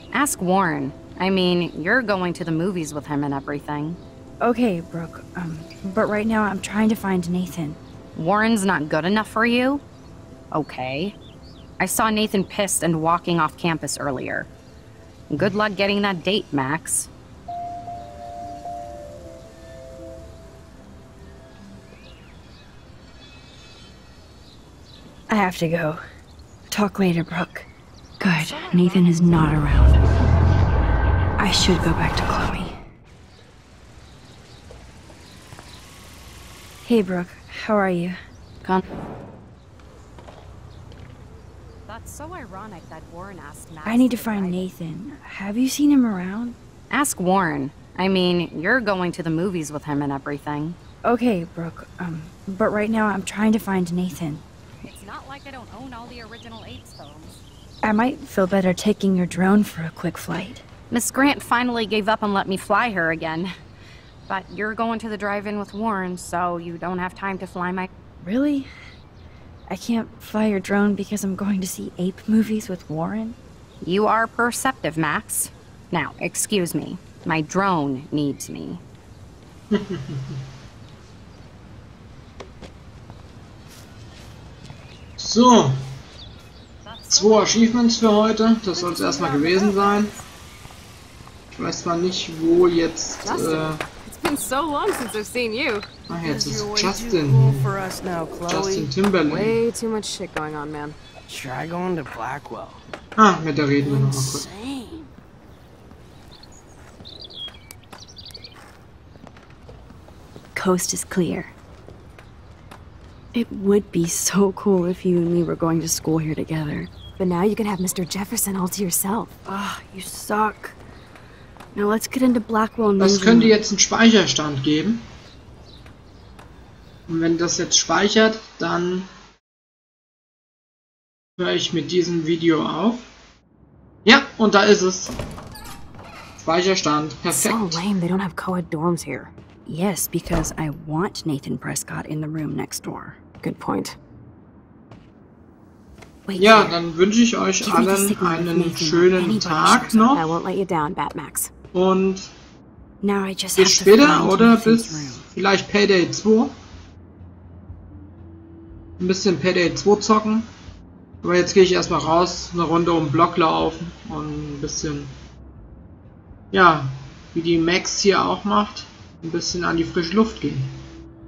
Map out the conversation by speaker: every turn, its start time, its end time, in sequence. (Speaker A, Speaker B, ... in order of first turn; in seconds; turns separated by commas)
Speaker A: 0.1-4.0, Speaker B: 4.4-7.8, Speaker A: 8.2-9.8, Speaker A: 10.5-11.2, Speaker A: 11.8-14.5, Speaker A: 15.3-17.1, Speaker B: 25.3-26.0, Speaker B: 26.7-27.7, Speaker B: 28.2-30.0, Speaker A: 28.3-29.4, Speaker B: 31.4-32.8, Speaker B: 36.9-38.2, Speaker A: 41.9-44.7, Speaker B: 43.9-46.6, Speaker A: 46.9-50.8, Speaker B: 51.0-54.4, Speaker A: 54.9-57.4, Speaker B: 57.8-60.6, Speaker A: 60.9-63.5, Speaker A: 64.3-67.9, Speaker B: 68.2-68.7, Speaker B: 69.7-73.4, Speaker A: 73.8-78.8, Speaker C: 79.7-80.4, Speaker C: 85.2-85.8, Speaker A: 86.8-87.8, Speaker C: 87.1-90.2, Speaker A: 88.8-90.2, Speaker C: 91.5-93.8, Speaker D: 93.2-95.9, Speaker C: 96.1-97.7, Speaker E: 96.2-98.9, Speaker C: 98.5-99.6, Speaker D: 99.2-101.0, Speaker E: 101.3-102.8, Speaker C: 103.2-104.5, Speaker E: 103.8-105.1, Speaker B: 110.5-111.5, Speaker B: 113.3-116.9, Speaker D: 117.2-119.3, Speaker B: 119.5-120.8, Speaker B: 121.8-123.6, Speaker C: 123.0-125.0, Speaker C: 127.1-129.1, Speaker C: 131.4-133.1, Speaker C: 134.1-135.2, Speaker C: 136.4-137.8, Speaker D: 137.3-139.3, Speaker B: 139.7-143.2, Speaker D: 143.4-144.0, Speaker B: 146.3-146.8, Speaker C: 146.4-150.3, Speaker B: 147.6-150.1, Speaker D: 150.1-151.5, Speaker C: 151.7-152.3, Speaker B: 153.0-155.2, Speaker C: 153.6-156.5, Speaker C: 159.0-160.5, Speaker C: 161.2-165.1, Speaker C: 166.5-170.7